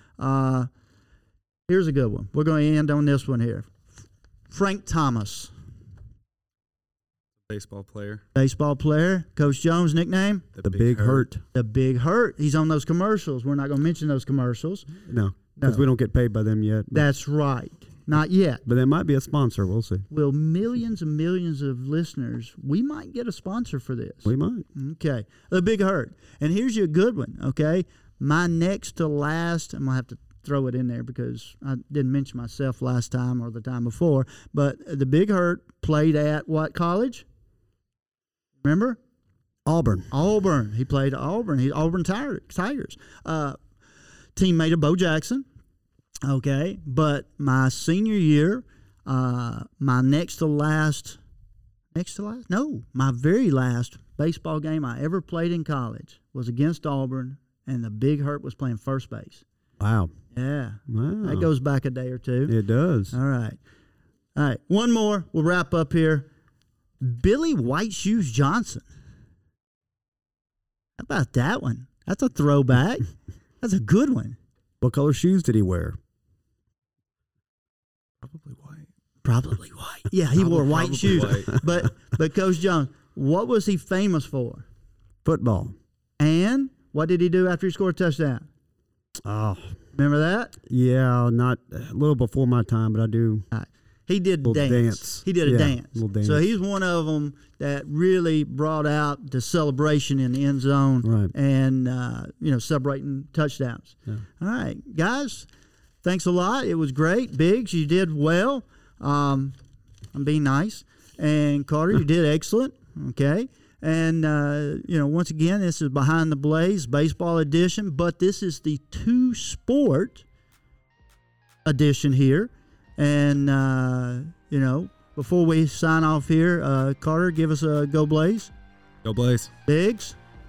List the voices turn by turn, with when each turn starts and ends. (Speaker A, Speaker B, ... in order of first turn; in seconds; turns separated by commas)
Speaker A: 0.2-0.7, Speaker A: 1.7-3.8, Speaker A: 4.5-5.5, Speaker B: 7.5-8.2, Speaker A: 8.3-10.4, Speaker B: 10.6-11.3, Speaker C: 10.6-11.4, Speaker A: 11.5-14.9, Speaker C: 15.0-17.0, Speaker A: 15.6-15.8, Speaker A: 16.9-18.6, Speaker C: 18.6-20.0, Speaker A: 20.1-37.2, Speaker C: 24.2-24.7, Speaker A: 38.6-39.0, Speaker C: 39.6-40.1, Speaker A: 40.1-43.6, Speaker A: 44.3-45.5, Speaker A: 46.2-51.2, Speaker A: 51.9-59.4, Speaker C: 59.8-60.1, Speaker A: 60.3-62.5, Speaker C: 60.9-61.5, Speaker C: 62.5-63.1, Speaker A: 63.1-63.6, Speaker A: 64.3-66.3, Speaker A: 67.0-68.8, Speaker A: 71.0-73.1, Speaker A: 73.6-74.4, Speaker C: 74.8-76.0, Speaker B: 78.2-78.9, Speaker A: 79.2-84.6, Speaker B: 80.4-81.6, Speaker C: 81.1-81.6, Speaker C: 85.2-85.7, Speaker A: 86.2-88.5, Speaker C: 89.2-89.8, Speaker A: 89.9-90.5, Speaker C: 90.6-93.5, Speaker A: 93.5-105.5, Speaker C: 94.4-96.4, Speaker C: 101.0-101.3, Speaker A: 106.0-109.5, Speaker A: 110.1-120.2, Speaker A: 121.6-128.5, Speaker B: 129.0-129.5, Speaker A: 129.7-130.2